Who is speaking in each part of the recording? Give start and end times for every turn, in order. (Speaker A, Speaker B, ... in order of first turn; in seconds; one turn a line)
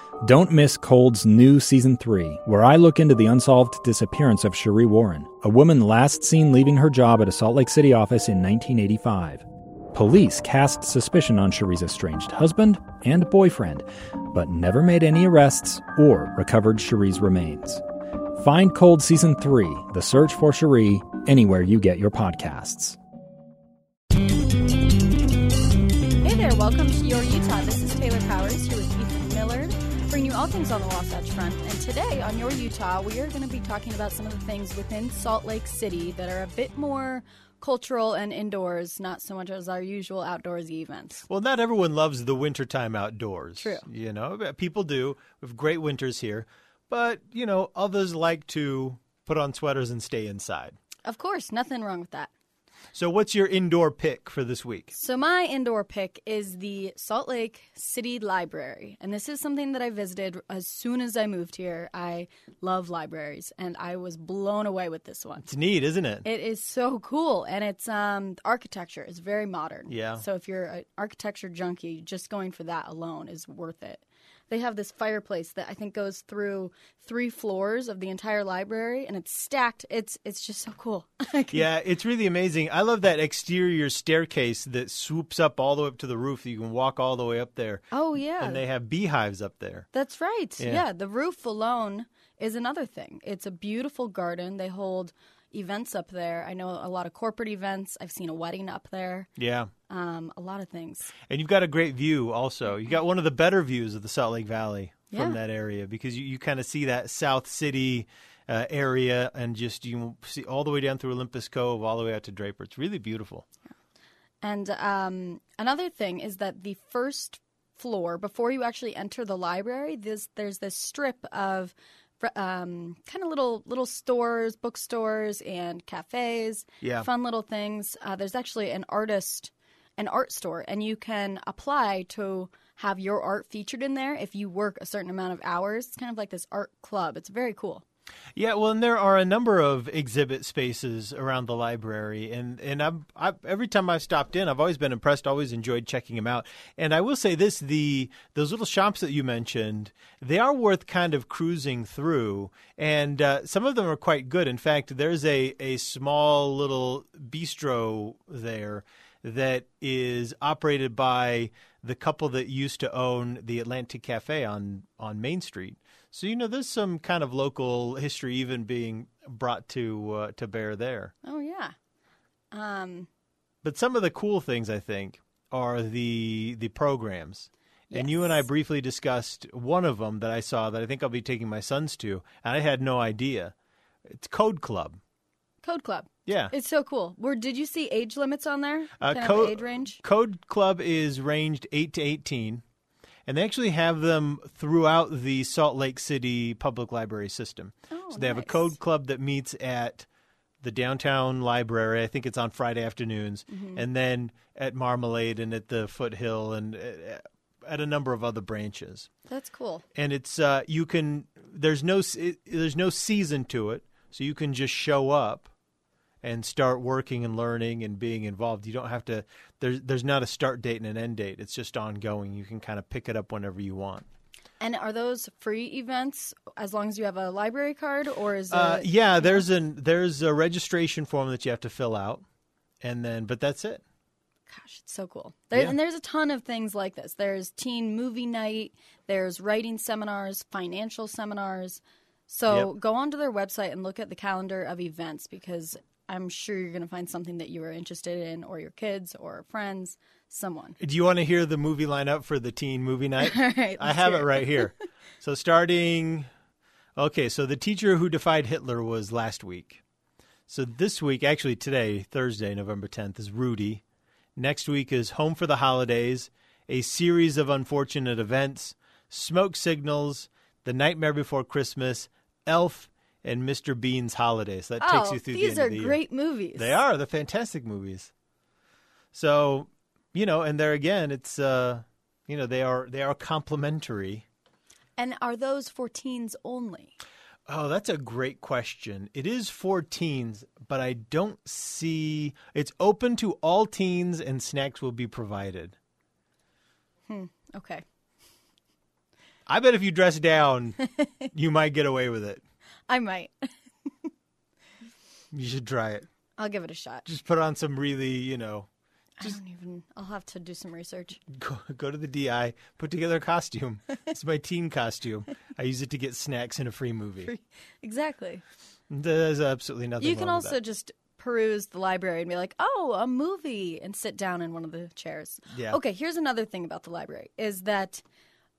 Speaker A: 0.2-17.8
Speaker A: 18.4-23.0
Speaker B: 26.2-41.2
Speaker C: 41.2-50.8
Speaker B: 43.6-43.8
Speaker B: 51.0-52.3
Speaker C: 52.9-54.9
Speaker B: 54.9-65.5
Speaker C: 65.4-66.3
Speaker B: 66.2-81.7
Speaker C: 69.9-70.2
Speaker C: 81.5-87.9
Speaker B: 87.9-88.6
Speaker C: 88.4-89.9
Speaker B: 89.9-99.3
Speaker C: 90.6-90.8
Speaker C: 99.4-99.7
Speaker B: 99.9-101.1
Speaker C: 101.3-113.4
Speaker B: 105.1-105.4
Speaker B: 114.4-137.8
Speaker C: 126.8-127.1
Speaker C: 138.3-171.1
Speaker B: 171.2-171.7
Speaker B: 172.5-173.1
Speaker C: 173.6-183.5
Speaker B: 177.9-178.4
Speaker C: 184.1-185.0
Speaker B: 185.6-190.0
Speaker C: 186.3-186.5
Speaker C: 189.0-192.6
Speaker C: 193.3-200.1
Speaker B: 197.9-198.8
Speaker C: 200.6-209.1
Speaker B: 203.5-203.8
Speaker B: 209.3-209.8
Speaker C: 209.9-215.5
Speaker C: 216.2-224.1
Speaker B: 224.6-229.4
Speaker C: 228.5-232.2
Speaker C: 232.8-233.8
Speaker B: 234.5-250.8
Speaker C: 250.8-256.3
Speaker B: 253.2-254.7
Speaker C: 256.9-259.8
Speaker C: 260.5-263.8
Speaker C: 264.4-276.0
Speaker B: 274.8-276.8
Speaker C: 276.6-278.1
Speaker C: 279.1-284.2
Speaker B: 285.0-286.9
Speaker C: 287.5-295.8
Speaker B: 297.1-297.8
Speaker C: 299.5-302.4
Speaker B: 302.9-304.1
Speaker C: 305.3-306.1
Speaker B: 306.4-307.0
Speaker C: 307.0-308.7
Speaker B: 309.2-311.2
Speaker C: 311.3-317.3
Speaker B: 317.2-318.4
Speaker C: 318.9-320.6
Speaker B: 320.0-328.0
Speaker C: 325.5-325.8